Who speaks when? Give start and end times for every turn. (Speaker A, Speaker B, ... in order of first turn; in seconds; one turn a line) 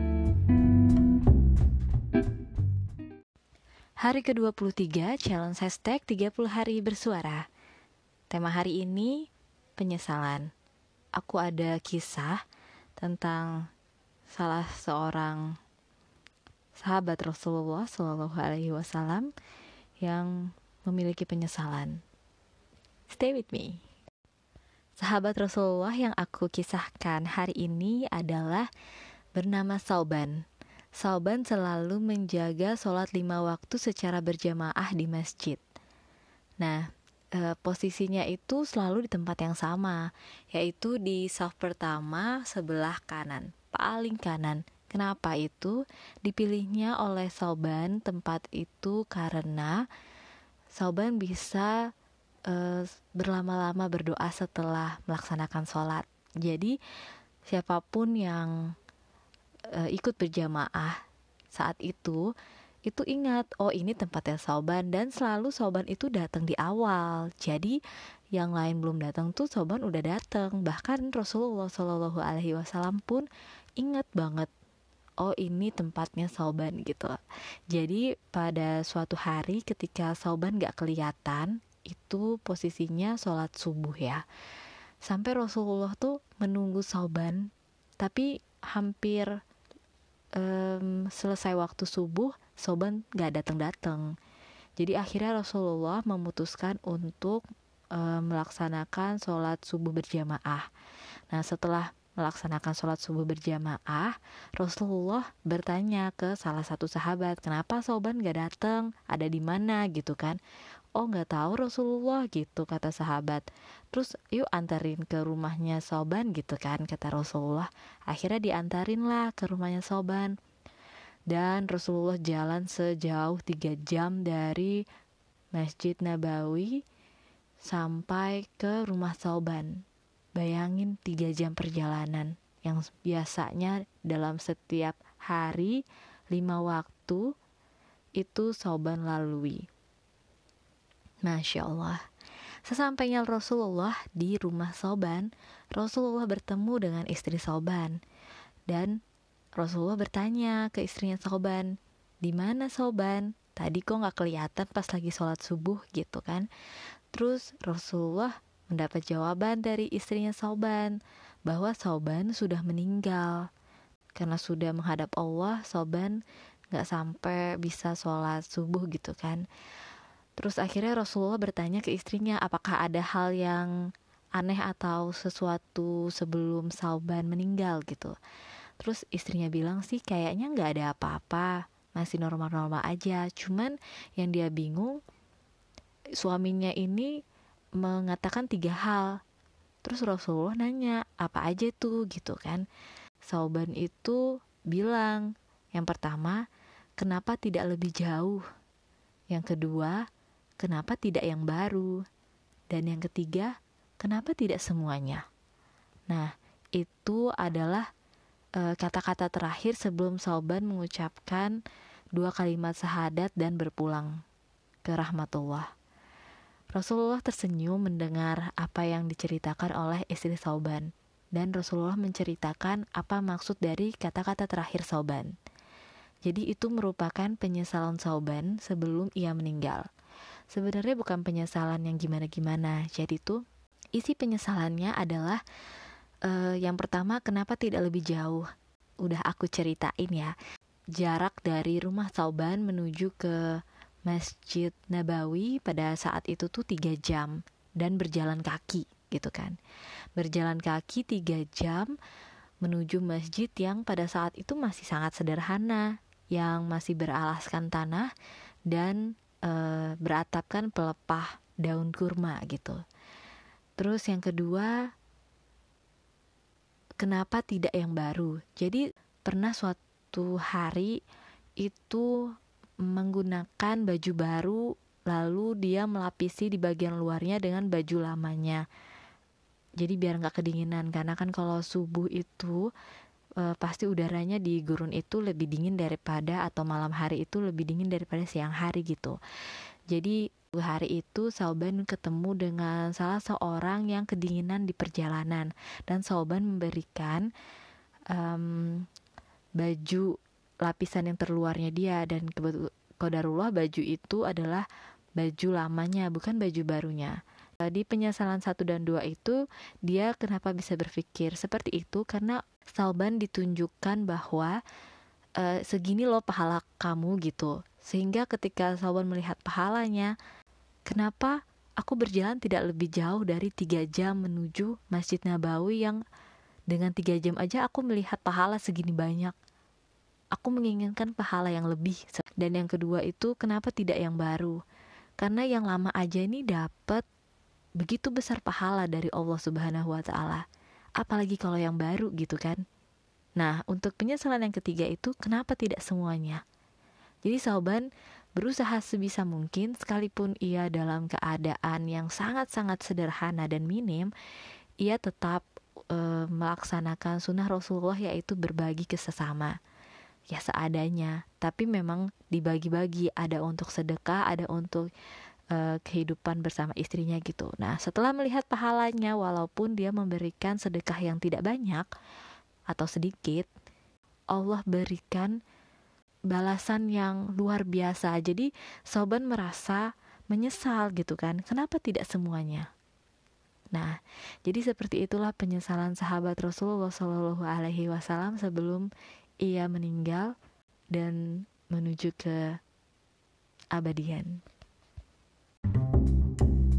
Speaker A: 4.0-7.5
Speaker A: 8.3-10.5
Speaker A: 11.2-12.4
Speaker A: 13.0-13.7
Speaker A: 14.3-15.6
Speaker A: 16.8-19.3
Speaker A: 20.0-22.0
Speaker A: 23.1-23.8
Speaker A: 25.0-28.7
Speaker A: 29.3-30.4
Speaker A: 31.0-35.6
Speaker A: 36.6-49.8
Speaker A: 50.7-51.7
Speaker A: 52.5-56.8
Speaker A: 57.5-58.7
Speaker A: 59.7-61.0
Speaker A: 61.5-62.3
Speaker A: 62.9-67.8
Speaker A: 68.3-73.2
Speaker A: 73.8-74.5
Speaker A: 75.2-77.2
Speaker A: 77.7-84.2
Speaker A: 85.0-89.3
Speaker A: 90.3-94.1
Speaker A: 94.8-100.7
Speaker A: 101.3-110.4
Speaker A: 111.0-120.3
Speaker A: 121.3-124.8
Speaker A: 125.5-126.8
Speaker A: 127.6-129.8
Speaker A: 130.3-137.3
Speaker A: 138.2-139.7
Speaker A: 141.2-142.0
Speaker A: 142.6-148.0
Speaker A: 148.7-149.0
Speaker A: 149.6-156.5
Speaker A: 157.1-163.5
Speaker A: 164.2-166.2
Speaker A: 166.7-169.4
Speaker A: 170.4-173.7
Speaker A: 174.4-178.2
Speaker A: 178.8-185.0
Speaker A: 186.2-187.1
Speaker A: 187.8-189.2
Speaker A: 189.8-192.6
Speaker A: 193.2-196.4
Speaker A: 197.0-198.4
Speaker A: 199.3-200.0
Speaker A: 200.6-202.0
Speaker A: 202.7-205.2
Speaker A: 206.1-207.9
Speaker A: 208.6-211.6
Speaker A: 212.1-214.2
Speaker A: 214.8-215.7
Speaker A: 216.7-225.3
Speaker A: 226.2-229.8
Speaker A: 230.5-233.4
Speaker A: 234.0-235.4
Speaker A: 236.2-238.5
Speaker A: 239.0-240.3
Speaker A: 240.9-249.6
Speaker A: 250.2-251.9
Speaker A: 252.6-258.1
Speaker A: 258.7-262.8
Speaker A: 263.8-264.8
Speaker A: 267.0-270.9
Speaker A: 271.6-272.2
Speaker A: 272.8-278.6
Speaker A: 279.8-282.7
Speaker A: 283.4-289.2
Speaker A: 289.9-297.3
Speaker A: 298.1-298.9
Speaker A: 299.6-300.1
Speaker A: 300.6-304.6
Speaker A: 305.2-314.6
Speaker A: 315.4-320.1
Speaker A: 320.9-326.0
Speaker A: 326.7-329.3
Speaker A: 330.3-334.6
Speaker A: 335.2-337.0
Speaker A: 337.8-340.4
Speaker A: 341.0-342.6
Speaker A: 343.4-346.4
Speaker A: 347.2-354.1
Speaker A: 354.8-359.6
Speaker A: 360.3-364.9
Speaker A: 365.5-371.9
Speaker A: 372.7-373.5
Speaker A: 374.3-375.4
Speaker A: 376.3-382.7
Speaker A: 383.7-388.9
Speaker A: 389.4-390.3
Speaker A: 390.9-392.6
Speaker A: 393.7-394.4